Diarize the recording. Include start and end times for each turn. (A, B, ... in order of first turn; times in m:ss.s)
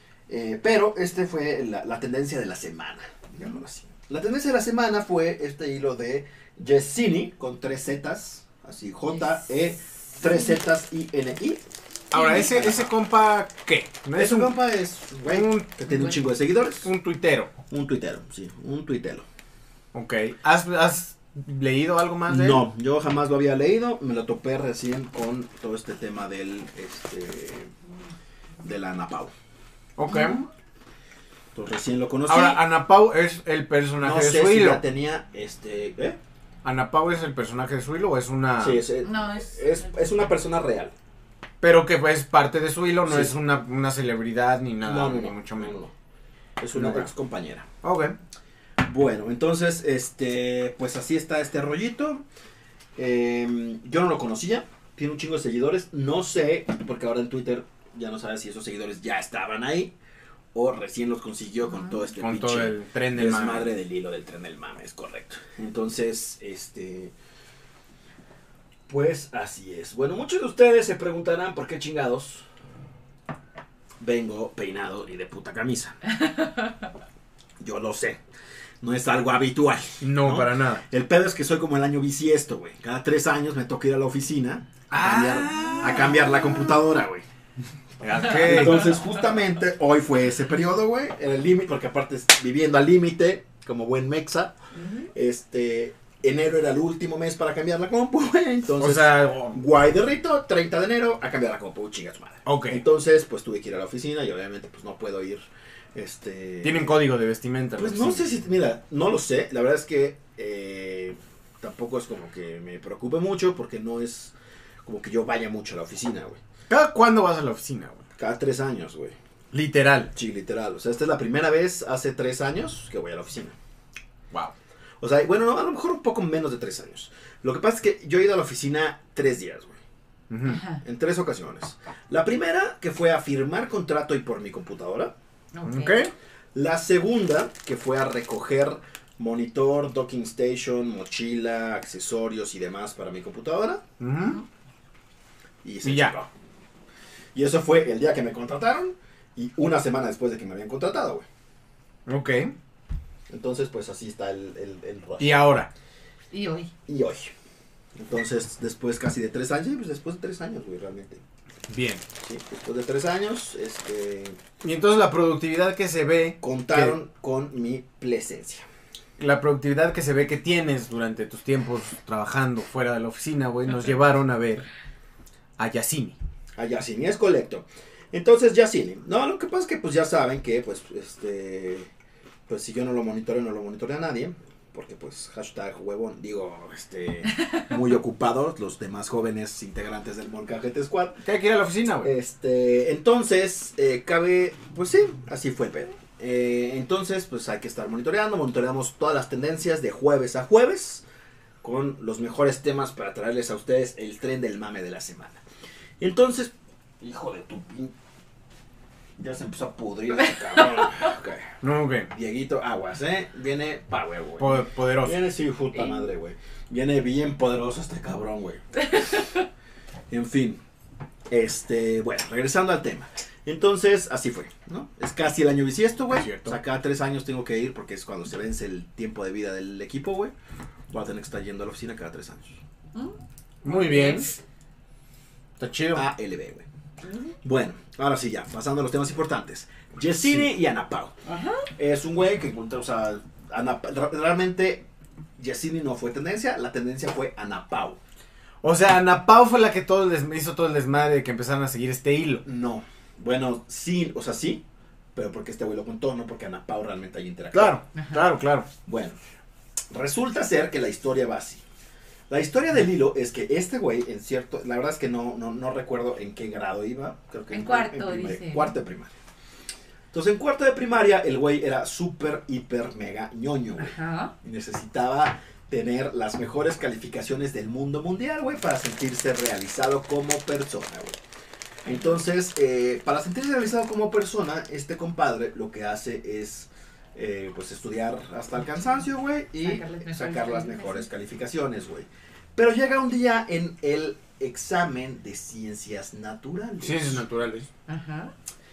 0:00.3-0:11.6 A
0:12.1-0:14.6 B
0:12.2-0:12.9 A
0:14.2-0:16.9 A
0:15.3-0:15.7 B
0:15.9-0:16.1 C
0:16.8-0:17.5 B
0:17.7-0:19.2 A
0:19.9-0:22.6 B
0:22.3-0:27.7 A
0:28.6-0:29.3 A
0:30.0-0:30.4 B
0:30.1-0:30.4 C
0:31.5-0:32.6 A
0:32.3-0:34.8 B
0:34.0-0:36.2 A
0:36.6-0:38.8 B
0:38.6-0:40.9 A
0:39.0-0:40.1 C
0:41.6-0:45.8 B
0:43.0-0:43.3 A
0:44.8-0:45.9 A
0:46.6-0:47.7 A
0:46.7-0:47.1 B
0:47.8-0:48.2 B
0:48.8-0:52.2 A
0:53.0-0:59.9 A
1:00.5-1:07.1 A
1:01.7-1:02.0 C
1:02.2-1:03.7 B
1:08.9-1:12.4 A
1:14.0-1:16.0 A
1:17.6-1:18.2 A
1:18.8-1:27.2 A
1:20.0-1:20.8 B
1:24.9-1:26.7 B
1:28.0-1:28.9 B
1:28.2-1:34.5 A
1:28.6-1:28.9 C
1:34.8-1:35.1 C
1:35.1-1:47.0 A
1:38.8-1:39.6 B
1:42.4-1:42.8 B
1:46.6-1:48.3 B
1:47.8-1:54.3 A
1:54.8-1:56.4 A
1:56.7-1:58.0 B
1:58.2-1:59.2 A
1:59.5-2:00.1 B
2:00.1-2:03.6 A
2:05.0-2:09.8 A
2:10.3-2:10.6 B
2:10.5-2:10.8 C
2:10.8-2:15.1 A
2:15.5-2:16.0 C
2:15.6-2:16.1 B
2:16.5-2:23.8 A
2:24.0-2:24.4 B
2:25.6-2:26.3 A
2:25.8-2:26.1 B
2:27.3-2:31.2 A
2:32.1-2:32.5 B
2:33.3-2:35.6 A
2:35.2-2:35.7 B
2:36.3-2:36.7 C
2:36.9-2:37.3 A
2:37.9-2:41.2 A
2:41.7-2:42.0 B
2:42.2-2:44.4 A
2:44.6-2:47.0 B
2:46.4-2:48.6 A
2:49.2-2:54.7 B
2:55.6-2:56.2 B
2:56.6-3:01.9 A
3:02.5-3:11.2 A
3:11.2-3:12.1 B
3:12.0-3:21.0 A
3:21.6-3:25.4 A
3:26.0-3:27.9 A
3:29.2-3:31.5 A
3:30.5-3:31.1 C
3:31.6-3:32.1 B
3:32.1-3:38.6 A
3:34.4-3:35.2 B
3:35.7-3:36.0 C
3:39.0-3:39.2 C
3:40.1-3:40.6 A
3:41.3-3:50.3 A
3:46.1-3:46.6 B
3:50.9-3:52.6 A
3:52.9-3:54.4 C
3:53.6-3:54.3 B
3:55.6-3:56.1 B
3:55.9-3:56.6 A
3:57.0-3:57.3 C
3:57.4-4:01.1 A
4:00.2-4:00.5 B
4:01.2-4:01.7 C
4:01.8-4:04.8 A
4:05.4-4:08.0 A
4:08.6-4:12.4 B
4:12.4-4:14.6 A
4:15.1-4:17.8 A
4:17.5-4:18.7 B
4:17.9-4:18.2 C
4:18.8-4:19.2 A
4:19.9-4:21.6 A
4:22.3-4:29.1 A
4:27.5-4:28.7 C
4:30.1-4:41.2 A
4:33.8-4:34.3 C
4:41.8-4:42.2 C
4:41.8-4:57.2 A
4:49.6-4:51.1 C
4:56.8-4:57.7 B
4:57.9-4:58.3 C